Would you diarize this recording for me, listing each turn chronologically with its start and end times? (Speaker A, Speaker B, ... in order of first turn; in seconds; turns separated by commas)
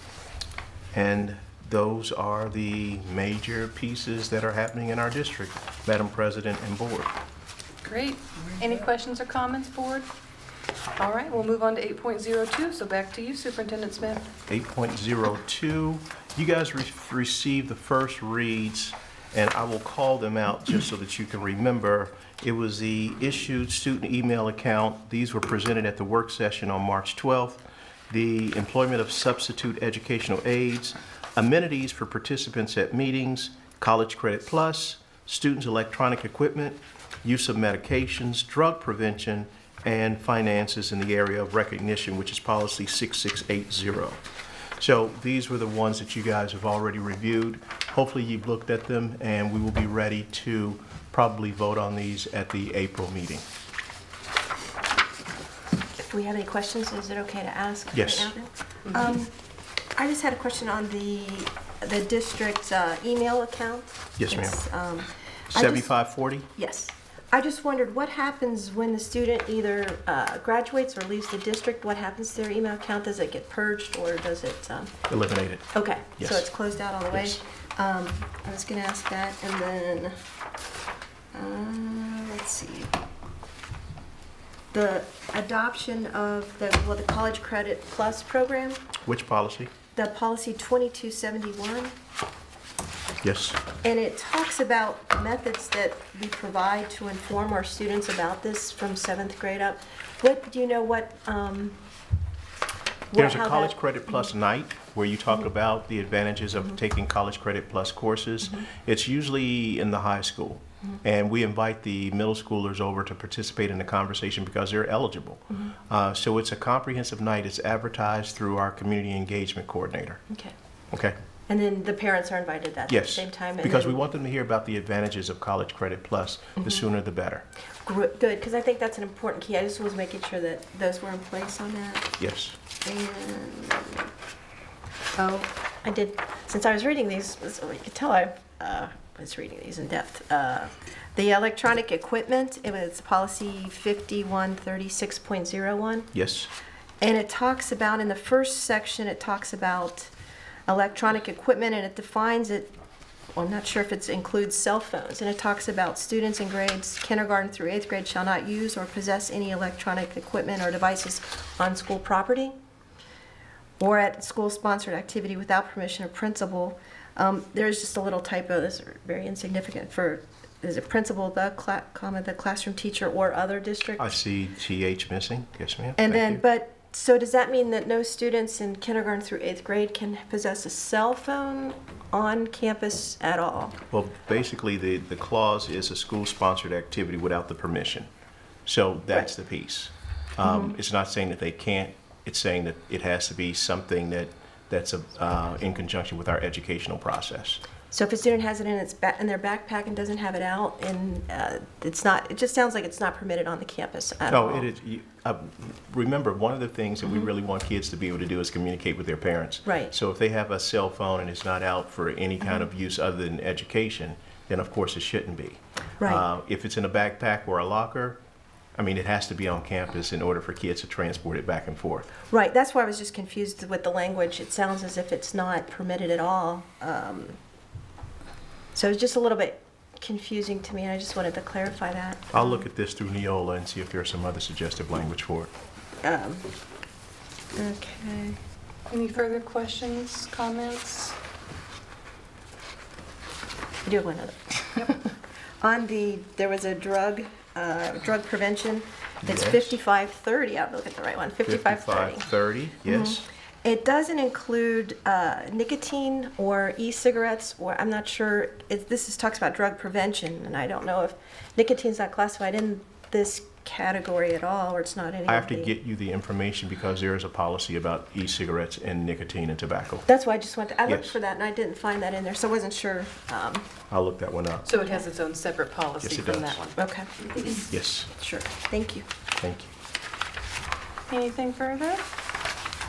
Speaker A: 0.9-7.1, Speaker B: 7.8-10.1, Speaker B: 11.0-14.3, Speaker A: 14.5-44.2, Speaker A: 44.8-53.4, Speaker C: 56.0-59.3, Speaker A: 57.9-58.3, Speaker C: 60.0-65.9, Speaker A: 64.2-64.6, Speaker A: 65.5-66.5, Speaker C: 66.5-74.9, Speaker A: 75.1-76.5, Speaker C: 75.7-80.1, Speaker A: 77.1-77.4, Speaker C: 81.3-83.0, Speaker C: 84.7-88.8, Speaker A: 89.0-89.7, Speaker C: 89.9-91.9, Speaker A: 93.2-93.6, Speaker C: 93.8-101.8, Speaker C: 103.1-104.2, Speaker A: 103.1-120.2, Speaker C: 120.3-120.5, Speaker A: 120.9-121.2, Speaker C: 121.5-124.0, Speaker A: 122.9-127.4, Speaker C: 127.8-132.1, Speaker A: 132.2-132.6, Speaker C: 132.8-134.1, Speaker C: 135.2-146.1, Speaker A: 146.1-146.5, Speaker C: 147.0-150.1, Speaker C: 150.7-152.7, Speaker C: 153.3-162.6, Speaker C: 163.8-174.1, Speaker A: 174.0-176.4, Speaker C: 176.0-183.8, Speaker A: 183.9-188.1, Speaker A: 188.7-197.6, Speaker C: 190.4-190.8, Speaker C: 197.9-204.7, Speaker A: 204.3-218.2, Speaker C: 209.7-209.9, Speaker A: 218.8-222.2, Speaker C: 222.3-227.4, Speaker C: 228.7-232.6, Speaker A: 232.3-235.5, Speaker C: 236.0-236.5, Speaker C: 237.6-238.4, Speaker B: 238.9-241.2, Speaker C: 243.8-252.3, Speaker A: 249.2-249.7, Speaker A: 251.4-253.2, Speaker C: 252.8-265.7, Speaker A: 265.3-270.1, Speaker C: 270.1-273.7, Speaker A: 270.9-271.2, Speaker A: 273.9-274.7, Speaker B: 274.6-277.6, Speaker A: 276.0-276.6, Speaker C: 276.8-277.1, Speaker A: 277.7-278.1, Speaker C: 278.1-279.1, Speaker A: 279.4-279.7, Speaker B: 281.1-282.0